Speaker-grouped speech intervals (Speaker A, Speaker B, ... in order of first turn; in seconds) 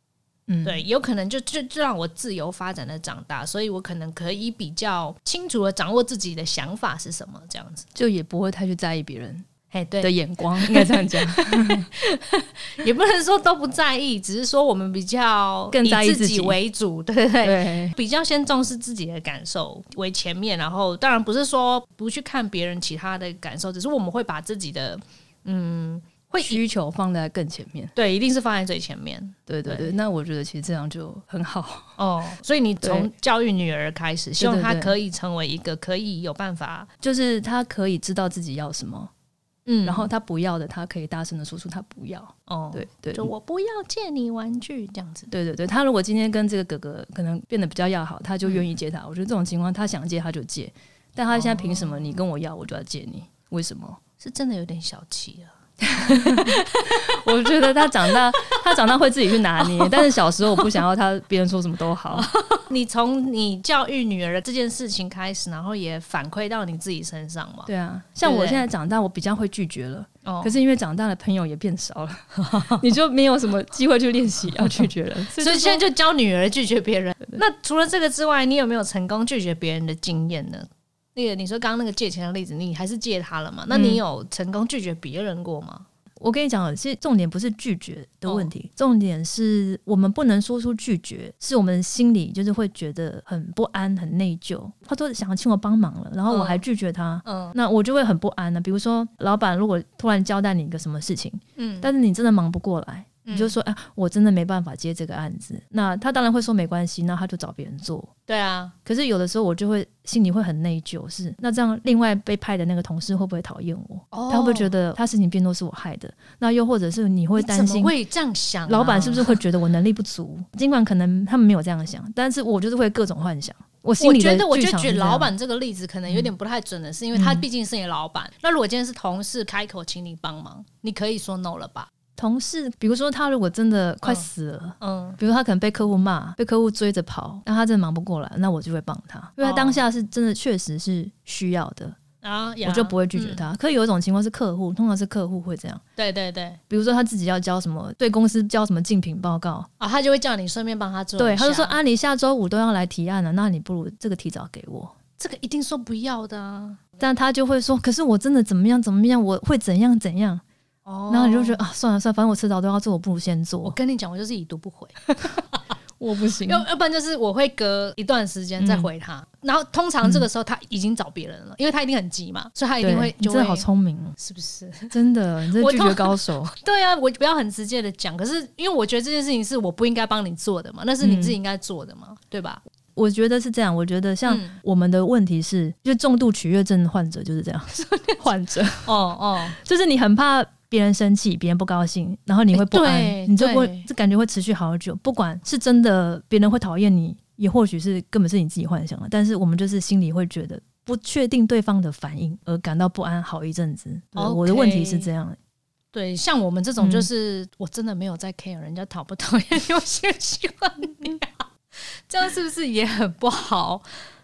Speaker A: 0.5-0.8, 7.9-9.4, 10.0-11.9, 15.7-16.6, 17.4-17.9, 26.4-27.9, 29.5-32.0, 32.8-33.1, 34.4-34.9, 37.0-39.1, 39.8-43.3, 45.3-54.0, 55.8-62.3, 67.7-75.8, 83.7-84.0, 86.2-108.1, 108.8-117.9, 118.7-125.3, 127.1-127.4, 132.2-142.0, 142.6-145.8, 146.7-149.7, 151.2-154.9, 157.0-160.4, 161.1-163.8, 166.0-166.6, 168.6-168.9, 172.8-174.2, 174.9-176.5, 181.0-181.3, 182.9-188.9, 189.5-205.4, 206.8-207.1
Speaker B: 0.6-7.9, 9.7-26.6, 27.9-29.9, 32.0-36.9, 39.6-40.1, 42.5-45.3, 51.3-52.1, 54.2-57.3, 58.1-58.6, 59.6-60.4, 62.1-67.7, 68.2-68.7, 70.2-70.5, 75.3-85.8, 88.2-88.5, 96.3-96.6, 97.2-97.5, 101.6-101.9, 103.2-103.5, 108.3-108.7, 114.1-114.7, 117.3-119.4, 124.0-131.9, 134.8-135.2, 139.4-139.8, 142.2-143.4, 146.0-146.6, 149.8-151.8, 155.2-156.8, 160.8-161.6, 163.6-165.6, 166.4-173.6, 174.2-174.9, 175.5-182.6, 184.2-184.6, 188.8-189.6, 192.5-193.9, 204.1-205.1, 205.9-211.4, 212.1-213.8